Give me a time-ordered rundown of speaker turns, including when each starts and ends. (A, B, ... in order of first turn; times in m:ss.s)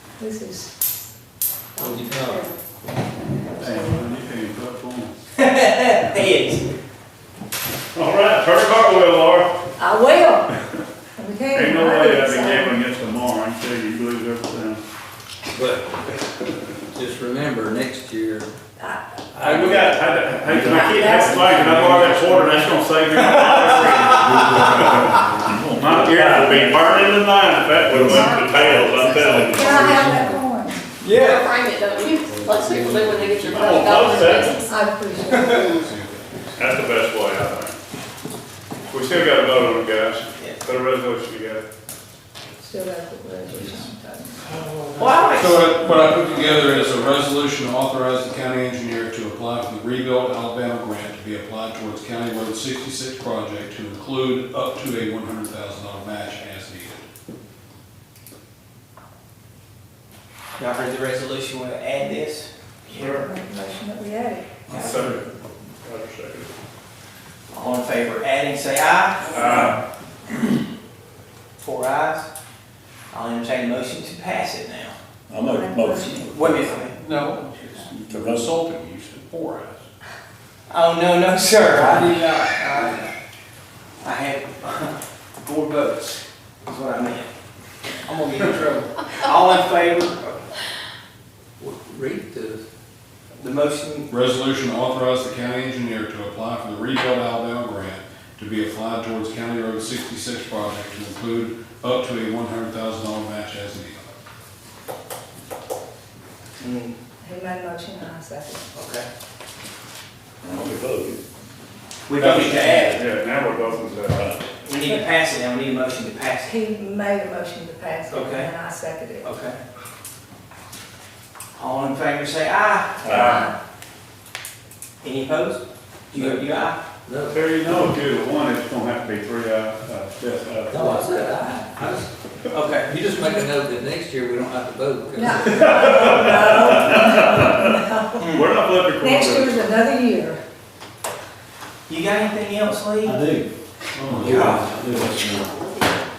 0:00.2-0:00.7 A
0:01.8-0:02.6 B
0:01.8-0:02.4 C
0:01.9-0:02.4 A
0:03.5-0:04.1 A
0:03.6-0:05.1 D
0:05.4-0:06.7 E
0:08.0-0:09.5 D
0:09.8-0:10.5 A
0:11.2-0:12.8 A
0:11.6-0:14.8 D
0:15.5-0:15.9 C
0:16.9-0:18.5 C
0:19.4-0:30.0 D
0:19.4-0:19.9 C
0:20.5-0:20.8 F
0:20.6-0:21.4 A
0:21.8-0:22.6 G
0:23.2-0:24.6 E
0:24.1-0:25.5 H
0:25.4-0:27.1 F
0:27.8-0:30.4 H
0:29.5-0:30.9 A
0:31.0-0:31.5 E
0:31.1-0:34.8 B
0:32.3-0:33.5 G
0:33.5-0:34.7 D
0:34.7-0:35.9 A
0:35.3-0:35.6 E
0:35.7-0:36.7 G
0:36.6-0:37.8 D
0:38.8-0:41.6 D
0:42.6-0:44.4 A
0:44.5-0:45.4 D
0:45.0-0:46.6 E
0:45.4-0:57.1 G
1:00.6-1:03.1 E
1:02.9-1:04.6 A
1:02.9-1:03.3 D
1:04.7-1:05.2 E
1:04.7-1:06.5 D
1:07.5-1:09.8 E
1:09.3-1:09.8 D
1:11.6-1:12.3 E
1:13.1-1:15.0 E
1:15.3-1:16.8 F
1:15.4-1:16.3 A
1:16.2-1:17.6 E
1:16.8-1:19.8 G
1:18.1-1:18.6 F
1:20.7-1:23.1 E
1:24.0-1:27.3 E
1:28.0-1:30.4 E
1:31.6-1:32.6 C
1:33.4-1:34.1 E
1:34.1-1:44.1 G
1:46.6-1:47.0 E
1:47.2-1:48.6 A
1:48.8-1:49.1 E
1:50.4-1:51.2 F
1:52.1-1:53.1 E
1:52.1-1:54.4 D
1:52.5-1:52.8 F
1:54.1-1:54.4 F
1:54.6-1:56.6 E
1:54.8-1:55.1 A
1:56.4-1:59.3 A
1:58.1-1:58.5 E
1:59.2-1:59.6 E
2:01.6-2:03.3 E
2:03.0-2:03.5 F
2:03.2-2:03.5 A
2:05.0-2:06.8 E
2:06.2-2:06.5 C
2:07.1-2:07.4 C
2:07.3-2:11.3 D
2:10.7-2:12.1 C
2:12.5-2:12.9 E
2:12.8-2:15.6 C
2:15.2-2:18.4 A
2:15.6-2:15.9 E
2:15.6-2:17.8 D
2:18.2-2:18.6 E
2:18.4-2:19.7 D
2:18.9-2:20.4 A
2:21.9-2:23.2 E
2:23.0-2:23.5 H
2:23.9-2:24.2 D
2:24.1-2:25.6 H
2:24.1-2:24.8 E
2:24.9-2:26.0 B